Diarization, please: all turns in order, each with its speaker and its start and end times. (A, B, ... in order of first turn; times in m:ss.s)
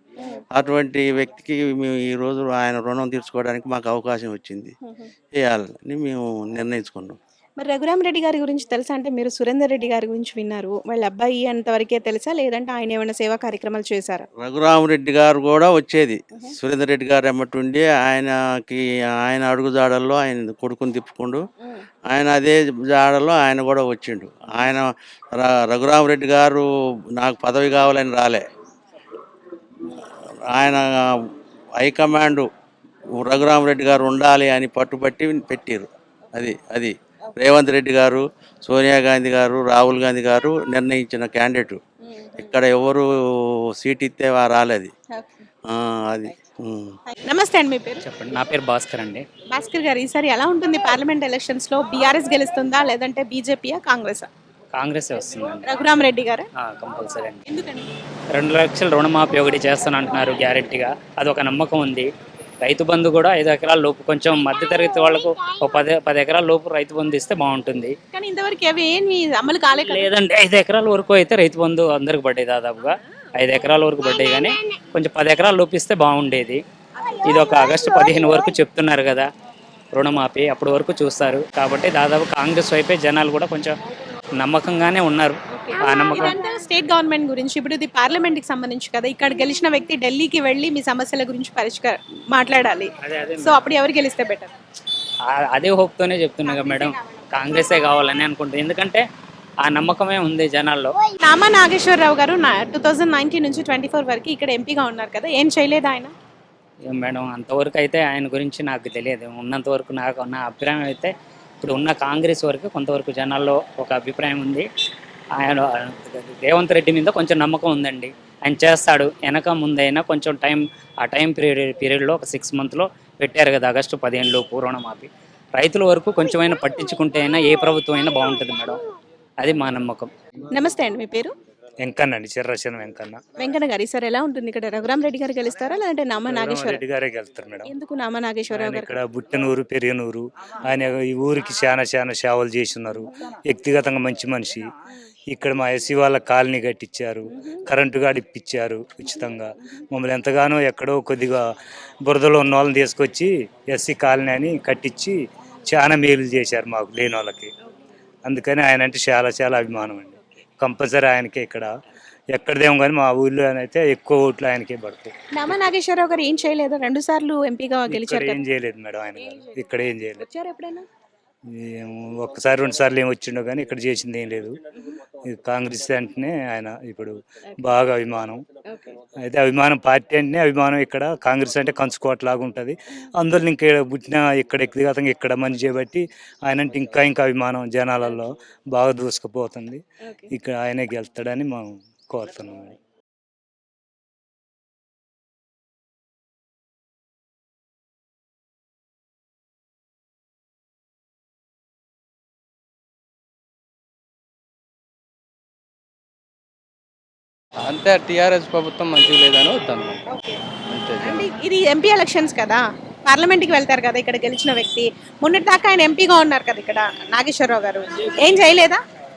0:00.5-0:04.7 A
0:04.8-0:05.1 B
0:05.4-0:07.2 A
0:07.6-0:14.3 B
0:14.4-0:21.4 A
0:22.1-0:28.4 A
0:30.5-0:31.1 A
0:31.8-0:32.5 A
0:33.2-0:41.8 A
0:42.0-0:42.6 B
0:42.4-0:43.0 A
0:43.8-0:44.9 A
0:45.1-0:45.4 B
0:45.7-0:47.0 A
0:47.1-0:48.0 B
0:48.0-0:49.2 C
0:49.5-0:54.3 B
0:54.7-0:55.7 C
0:55.6-0:56.5 B
0:56.6-0:57.4 C
0:57.4-0:57.9 B
0:58.3-1:02.1 C
1:02.6-1:07.9 C
1:08.1-1:10.1 B
1:09.9-1:16.6 C
1:17.0-1:18.0 B
1:17.2-1:19.3 C
1:19.9-1:23.7 C
1:24.4-1:26.4 C
1:25.5-1:34.5 B
1:33.0-1:33.7 C
1:35.3-1:39.0 C
1:39.6-1:41.0 C
1:41.1-1:46.1 B
1:46.9-1:54.6 C
1:55.4-2:08.8 C
2:09.4-2:10.1 C
2:10.5-2:11.3 B
2:11.8-2:13.2 D
2:13.4-2:16.8 B
2:16.3-2:17.7 D
2:17.6-2:19.0 B
2:18.5-2:24.7 D
2:25.3-2:31.4 D
2:27.3-2:27.6 B
2:32.0-2:35.2 D
2:35.7-2:37.5 D
2:38.2-2:41.7 D
2:42.3-2:45.6 D
2:45.3-2:48.4 B
2:47.9-2:50.2 D
2:50.2-2:50.8 B
2:51.5-2:54.6 D
2:55.2-2:58.4 D
2:58.7-2:59.0 B
2:59.2-3:12.8 D
3:10.0-3:10.3 B
3:27.7-3:30.1 E
3:30.6-3:31.3 E
3:31.0-3:38.8 B